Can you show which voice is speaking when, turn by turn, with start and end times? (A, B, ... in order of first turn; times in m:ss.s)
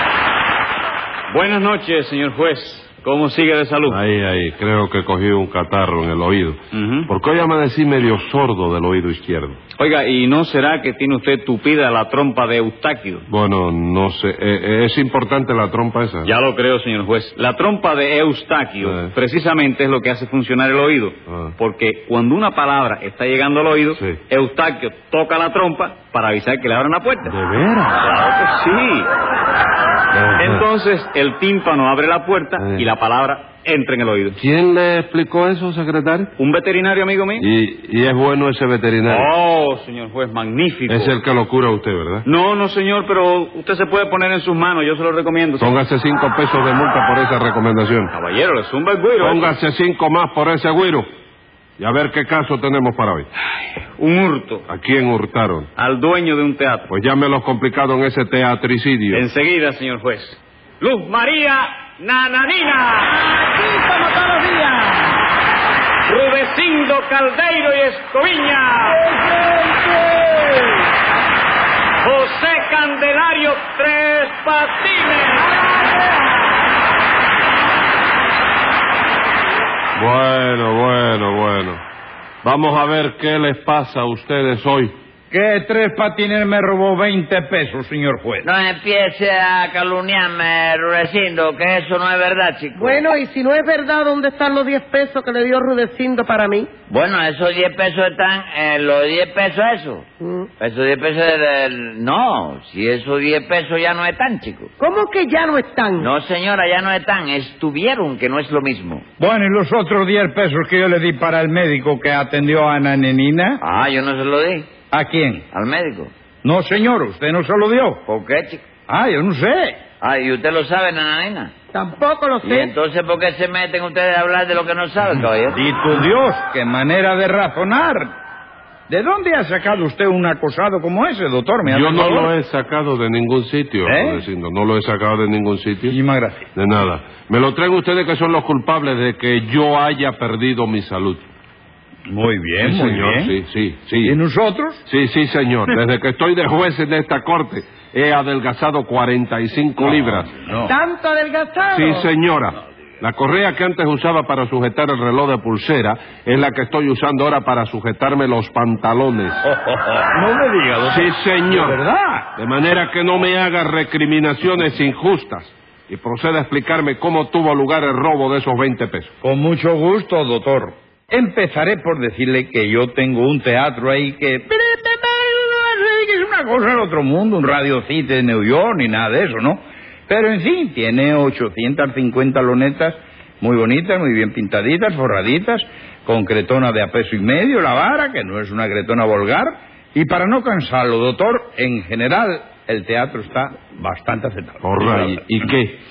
0:01.3-0:04.0 A
0:03.9-0:09.6 B
0:06.7-0:07.1 A
0:09.8-0:13.2 A
0:13.3-0:16.3 B
0:16.2-0:27.3 A
0:18.8-0:19.1 B
0:21.3-0:21.6 B
0:27.2-0:28.0 B
0:28.0-0:29.1 A
0:30.1-0:30.7 B
0:30.4-0:34.4 A
0:32.6-0:32.9 B
0:34.4-0:36.3 B
0:36.4-0:37.5 A
0:37.4-0:39.3 B
0:39.1-0:41.2 A
0:40.9-0:42.3 B
0:42.3-0:45.7 A
0:45.6-0:48.1 B
0:48.1-0:49.5 A
0:49.2-0:51.1 B
0:51.8-0:53.3 B
0:54.0-0:54.7 A
0:54.7-0:55.7 B
0:55.8-0:56.9 A
0:56.9-0:59.3 B
0:59.1-1:03.2 A
1:03.3-1:04.9 C
1:06.1-1:09.0 A
1:09.0-1:10.6 C
1:12.0-1:15.7 A
1:20.0-1:21.8 B
1:22.4-1:24.9 B
1:25.3-1:28.5 C
1:28.4-1:33.0 D
1:32.8-1:36.7 E
1:36.9-1:40.1 D
1:40.2-1:40.5 E
1:40.6-1:44.7 D
1:44.8-1:46.1 E
1:46.0-1:49.0 D
1:49.2-1:53.6 C
1:53.6-1:54.7 D
1:54.9-1:55.4 C
1:55.5-1:56.1 D
1:56.4-1:58.0 C
1:58.1-1:58.6 D
1:58.9-1:59.8 C
2:00.0-2:01.5 D
2:01.7-2:02.7 E
2:02.4-2:05.7 D
2:05.5-2:08.1 C
2:08.9-2:12.3 C
2:11.7-2:16.0 B
2:13.8-2:14.2 C
2:15.9-2:16.5 C
2:16.6-2:21.2 B
2:22.1-2:23.4 C
2:22.6-2:24.2 B
2:24.0-2:24.8 C
2:24.9-2:30.3 B
2:29.8-2:30.7 C
2:30.7-2:32.1 E
2:31.7-2:39.4 B
2:39.4-2:42.3 C
2:40.8-2:41.8 B
2:42.4-2:49.1 B
2:49.2-3:15.5 C
3:14.6-3:15.8 B